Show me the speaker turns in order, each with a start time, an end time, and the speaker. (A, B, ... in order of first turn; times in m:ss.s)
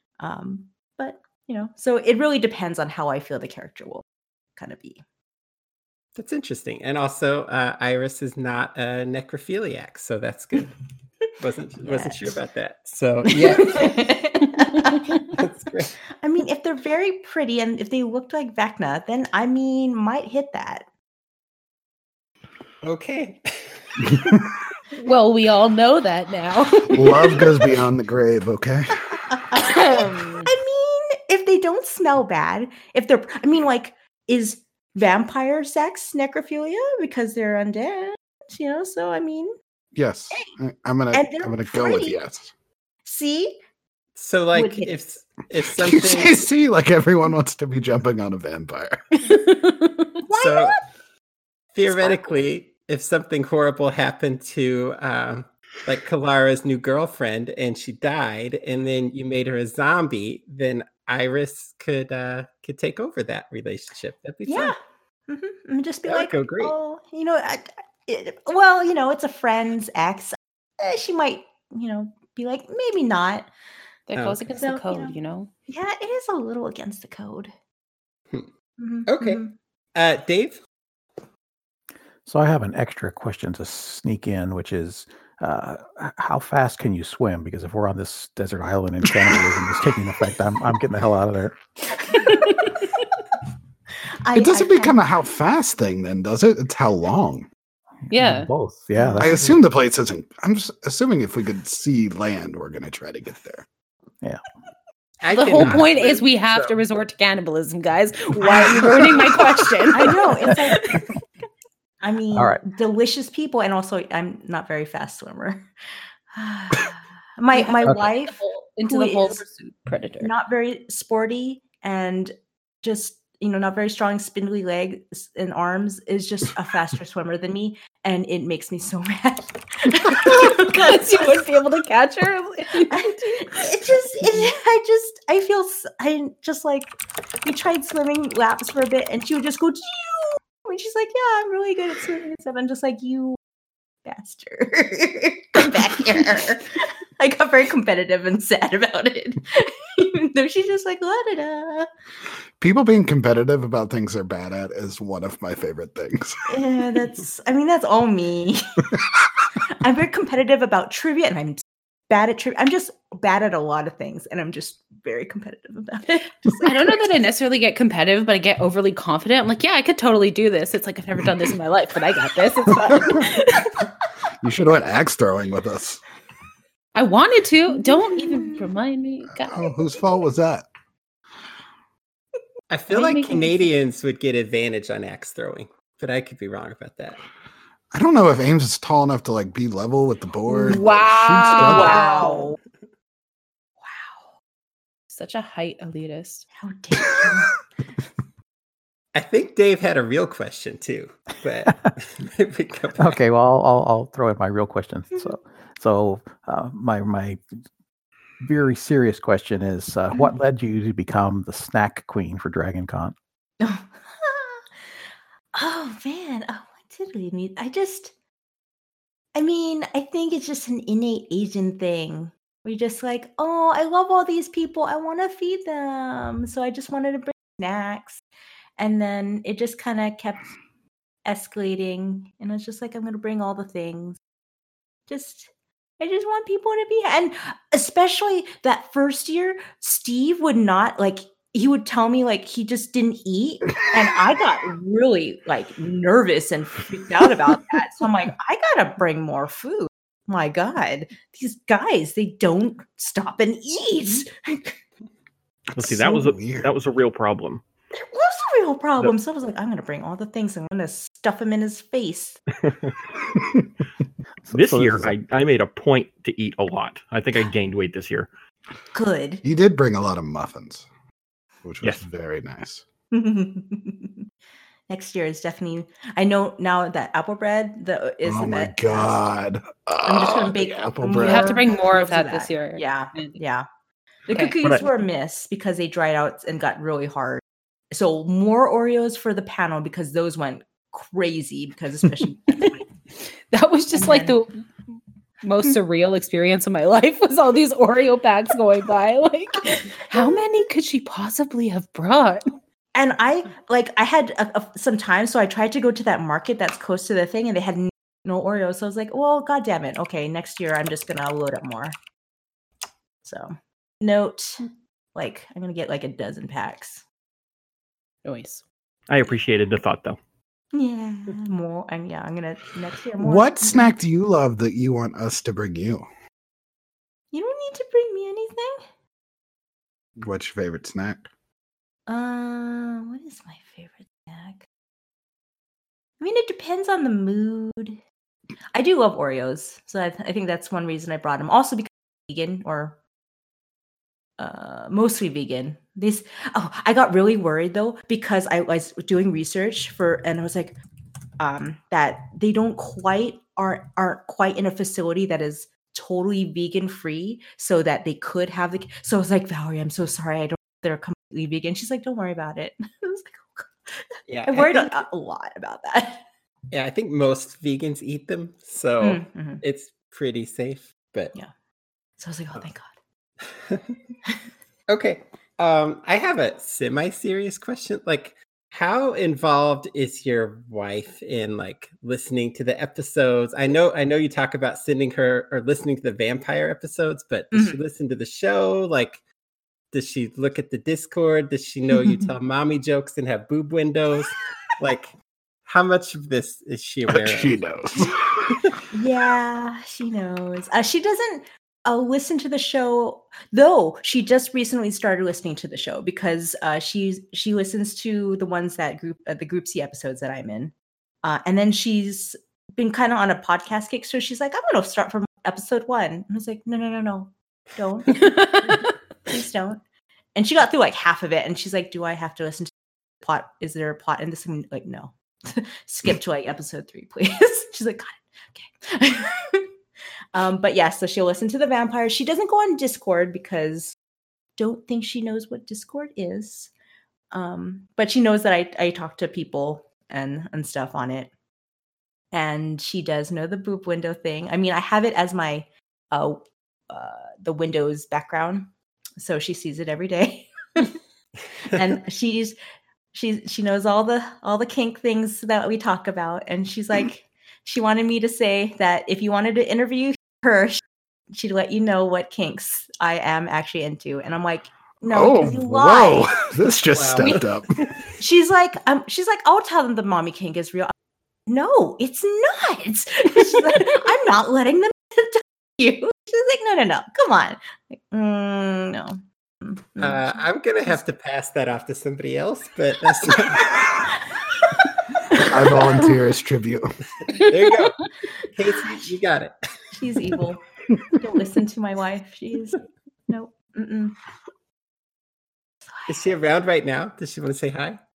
0:00.2-0:04.0 A
0:04.6-0:05.0 A
0:06.2-0:10.7 B
0:11.4-0:14.0 B
0:11.8-0:12.4 A
0:13.3-0:15.4 A
0:14.6-0:15.0 C
0:15.2-0:15.9 B
0:16.2-0:20.8 A
0:22.8-0:24.2 B
0:24.9-0:27.5 C
0:26.9-0:29.2 D
0:29.3-0:39.5 A
0:29.5-0:30.5 C
0:39.9-0:42.5 D
0:41.1-0:42.2 A
0:43.0-0:43.6 A
0:44.2-0:46.4 B
0:44.5-0:44.9 A
0:45.8-0:49.0 D
0:49.2-0:50.2 C
0:50.2-0:50.8 A
0:50.4-0:50.8 B
0:51.7-1:04.7 B
0:51.9-0:52.2 A
1:04.4-1:04.7 A
1:05.3-1:13.5 A
1:06.0-1:06.7 B
1:14.1-1:15.5 C
1:14.2-1:14.4 B
1:14.6-1:17.5 A
1:18.8-1:19.5 A
1:19.1-1:19.4 B
1:19.9-1:20.6 B
1:22.2-1:31.6 E
1:32.0-1:32.8 C
1:32.1-1:32.7 A
1:34.2-1:35.0 A
1:34.3-1:37.5 D
1:38.1-1:38.5 C
1:38.1-1:39.6 E
1:39.0-1:39.3 A
1:39.2-1:43.6 D
1:45.2-1:46.8 B
1:45.3-1:51.1 C
1:49.9-1:50.9 A
1:52.0-1:55.7 A
1:56.3-1:59.4 A
1:57.5-2:00.3 C
2:00.2-2:11.4 A
2:10.2-2:13.6 C
2:12.9-2:23.4 A
2:24.0-2:31.9 A
2:32.6-2:36.4 D
2:36.5-2:38.9 A
2:39.8-2:47.0 A
2:46.6-2:53.9 C
2:54.4-2:56.0 D
2:56.9-2:59.7 C
2:57.8-2:58.6 A
2:59.4-3:00.7 D
3:02.7-3:07.2 B
3:02.9-3:03.7 C
3:07.9-3:12.1 D
3:10.5-3:12.6 C
3:11.4-3:12.6 A
3:13.8-3:14.2 A
3:15.1-3:16.5 C
3:16.6-3:17.5 A
3:19.1-3:23.2 B
3:23.0-3:27.4 E
3:28.4-3:33.1 E
3:33.6-3:34.6 A
3:35.5-3:38.1 A
3:39.3-3:48.2 A
3:48.8-3:50.5 A
3:51.2-3:54.2 A
3:55.1-4:14.8 A
4:15.8-4:16.7 D
4:15.8-4:17.6 F
4:18.0-4:22.4 A
4:22.7-4:22.9 F
4:24.5-4:25.1 E
4:24.5-4:28.3 F
4:28.9-4:29.4 A
4:29.4-4:30.8 D
4:31.6-4:32.8 D
4:33.1-4:34.2 A
4:34.9-4:39.3 A
4:38.2-4:41.6 D
4:40.0-4:43.6 A
4:41.2-4:43.4 C
4:44.3-4:52.8 A
4:53.5-4:54.6 C
4:53.9-4:54.4 A
4:55.4-5:02.6 C
5:00.1-5:00.4 A
5:02.9-5:11.9 A
5:13.2-5:14.6 A
5:15.1-5:17.0 A
5:18.2-5:18.6 C
5:19.1-5:20.2 F
5:20.7-5:23.9 A
5:23.2-5:26.0 D
5:27.3-5:28.8 A
5:30.2-5:31.3 D
5:32.1-5:34.6 A
5:36.2-5:38.0 A
5:38.7-5:43.0 A
5:44.4-5:50.8 A
5:51.4-6:06.2 A
6:04.3-6:05.0 B
6:06.7-6:11.3 B
6:09.0-6:09.6 A
6:12.2-6:12.9 A
6:14.9-6:29.2 B
6:27.5-6:27.8 A
6:29.9-6:35.1 B
6:35.6-6:37.6 B
6:37.1-6:38.6 D
6:38.9-6:59.8 A
6:58.3-6:58.9 C
7:00.3-7:09.7 A
7:10.3-7:13.9 A
7:14.6-7:16.7 A
7:17.3-7:21.3 A
7:22.3-7:31.0 A
7:31.7-7:32.5 A
7:33.1-7:46.5 A
7:45.1-7:47.8 D
7:46.9-7:47.8 B
7:47.2-7:47.4 A
7:48.2-7:50.9 A
7:51.5-8:00.4 A
8:00.0-8:03.9 B
8:03.5-8:03.8 D
8:05.4-8:06.9 D
8:07.3-8:09.5 B
8:09.9-8:10.6 A
8:11.1-8:14.2 A
8:16.1-8:18.0 B